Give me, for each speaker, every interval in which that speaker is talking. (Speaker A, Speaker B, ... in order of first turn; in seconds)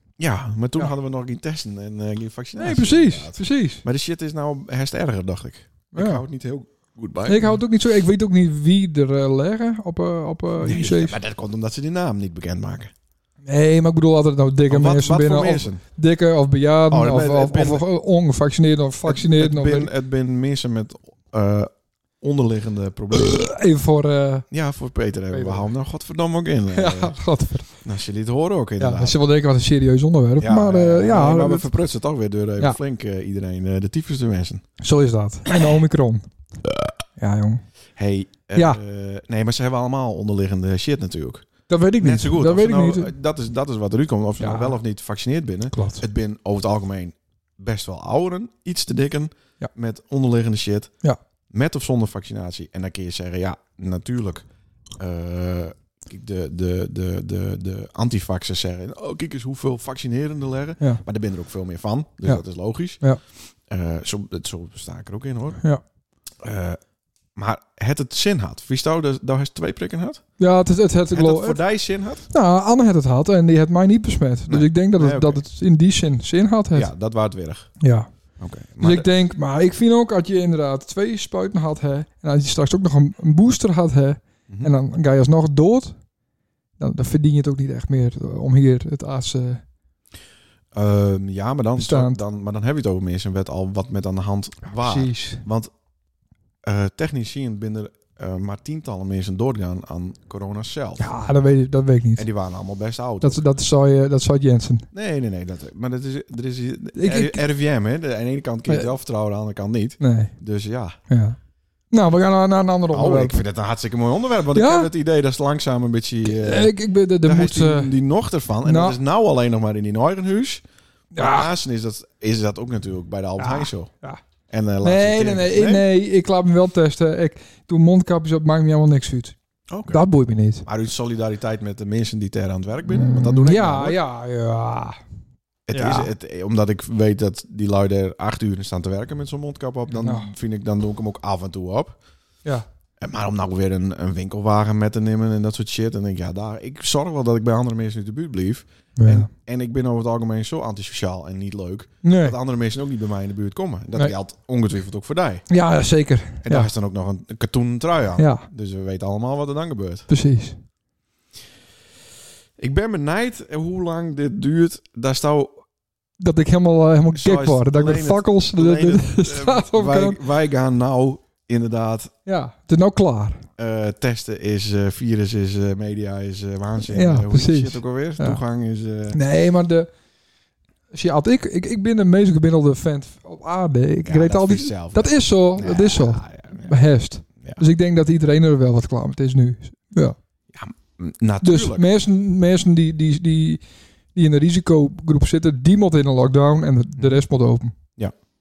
Speaker A: 0.2-7.6, 10.6-12.9, 14.7-15.8, 16.9-17.9, 19.1-23.5, 24.5-27.2, 27.8-29.2, 30.4-34.6, 36.6-36.9, 38.0-50.9, 51.5-54.5, 55.0-63.0, 63.7-65.6, 66.4-66.8, 67.4-70.2, 71.1-72.3, 74.5-75.4, 76.8-77.7, 78.4-79.1, 84.5-84.7, 90.7-95.7, 96.6-101.1, 102.2-103.4, 104.9-111.0, 112.9-120.6, 121.2-123.9, 124.5-125.9, 129.7-130.0, 130.7-134.0, 135.7-142.0, 143.0-155.5, 156.4-160.1, 162.6-165.6, 167.1-172.1, 173.6-179.2, 184.1-186.8, 190.5-191.9
Speaker B: 2.6-3.8, 5.9-6.2, 7.3-11.2, 13.4-19.9, 23.1-24.5, 25.3-25.7, 26.7-27.7, 28.8-31.7, 34.8-36.3, 37.2-37.6, 38.5-38.8, 41.7-43.1, 44.4-44.8, 45.7-46.0, 70.4-71.6, 72.3-76.9, 77.8-78.1, 78.8-86.0, 86.8-89.6, 91.8-92.2, 94.7-95.4, 101.0-102.3, 103.2-104.9, 107.0-107.4, 110.0-110.3, 111.1-111.4, 111.9-113.4, 114.5-114.9, 116.2-117.9, 118.6-119.0, 121.1-121.5, 123.4-124.2, 124.8-129.4, 129.9-130.7, 132.9-135.0, 135.7-136.1, 139.9-140.3, 149.0-149.3, 152.0-152.4, 155.5-156.7, 158.2-158.5, 160.1-160.6, 166.2-170.2, 172.3-173.5, 176.8-178.4, 179.1-179.9, 180.9-190.2, 191.4-193.6, 194.2-197.7